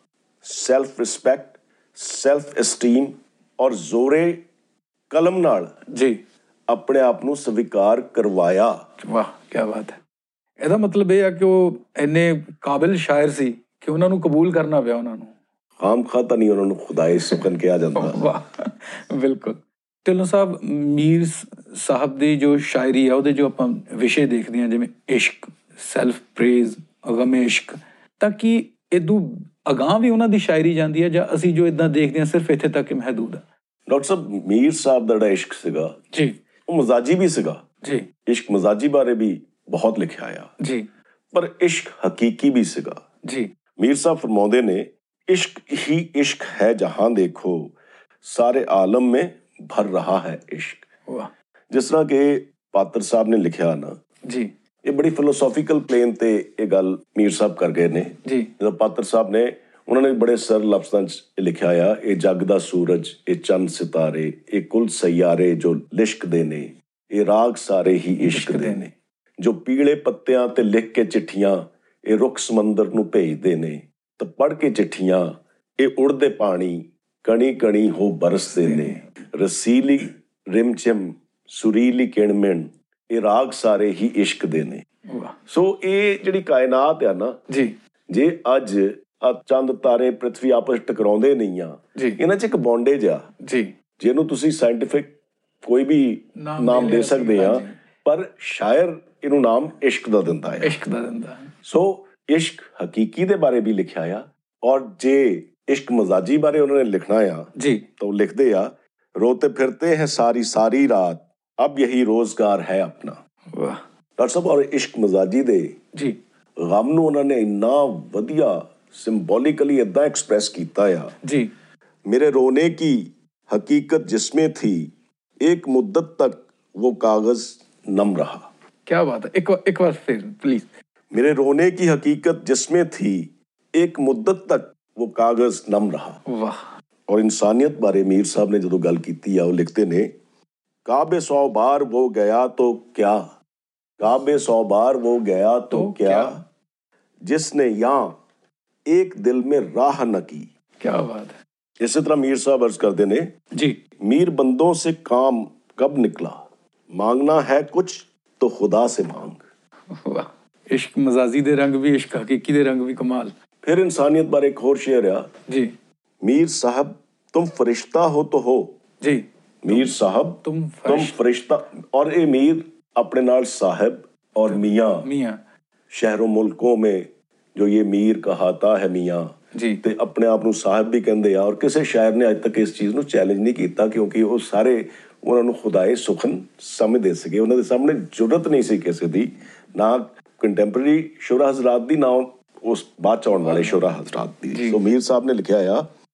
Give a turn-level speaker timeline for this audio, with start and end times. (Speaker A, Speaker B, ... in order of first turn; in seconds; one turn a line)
Speaker A: 0.4-4.4
Speaker A: 5.1-5.7
Speaker B: 5.9-6.2
Speaker A: 6.7-8.7
Speaker B: 9.0-10.0
Speaker B: 10.6-15.3
Speaker A: 15.8-18.2
Speaker B: 18.0-33.4
Speaker A: 33.9-36.0
Speaker A: 36.7-37.6
Speaker A: 38.3-40.5
Speaker B: 40.6-40.9
Speaker A: 41.3-43.0
Speaker A: 43.8-50.9
Speaker A: 51.7-54.0
Speaker A: 54.9-68.9
Speaker B: 58.2-58.5
Speaker B: 68.2-68.9
Speaker A: 69.4-84.8
Speaker B: 78.6-79.1
Speaker B: 85.1-85.4
Speaker A: 85.5-87.4
Speaker B: 87.5-87.8
Speaker A: 88.1-93.3
Speaker B: 93.4-93.7
Speaker A: 94.0-100.8
Speaker B: 96.4-97.8
Speaker B: 100.6-101.5
Speaker A: 101.7-113.2
Speaker B: 107.6-107.8
Speaker B: 113.5-113.8
Speaker A: 114.2-115.7
Speaker A: 116.6-121.1
Speaker B: 121.2-121.5
Speaker A: 122.1-124.9
Speaker A: 125.4-128.5
Speaker B: 128.9-130.7
Speaker A: 131.1-136.2
Speaker B: 136.3-136.7
Speaker A: 137.1-140.1
Speaker A: 140.9-143.2
Speaker A: 144.0-146.4
Speaker B: 145.7-146.4
Speaker A: 147.3-148.2
Speaker A: 148.9-150.5
Speaker B: 150.8-151.4
Speaker A: 151.8-153.3
Speaker A: 154.0-159.4
Speaker B: 159.9-163.3
Speaker A: 163.6-165.3
Speaker A: 166.2-168.8
Speaker B: 169.0-169.9
Speaker A: 169.6-175.1
Speaker B: 170.4-171.1
Speaker B: 174.5-175.4
Speaker A: 175.9-195.9
Speaker B: 179.5-179.8
Speaker B: 193.4-193.8
Speaker B: 194.5-194.8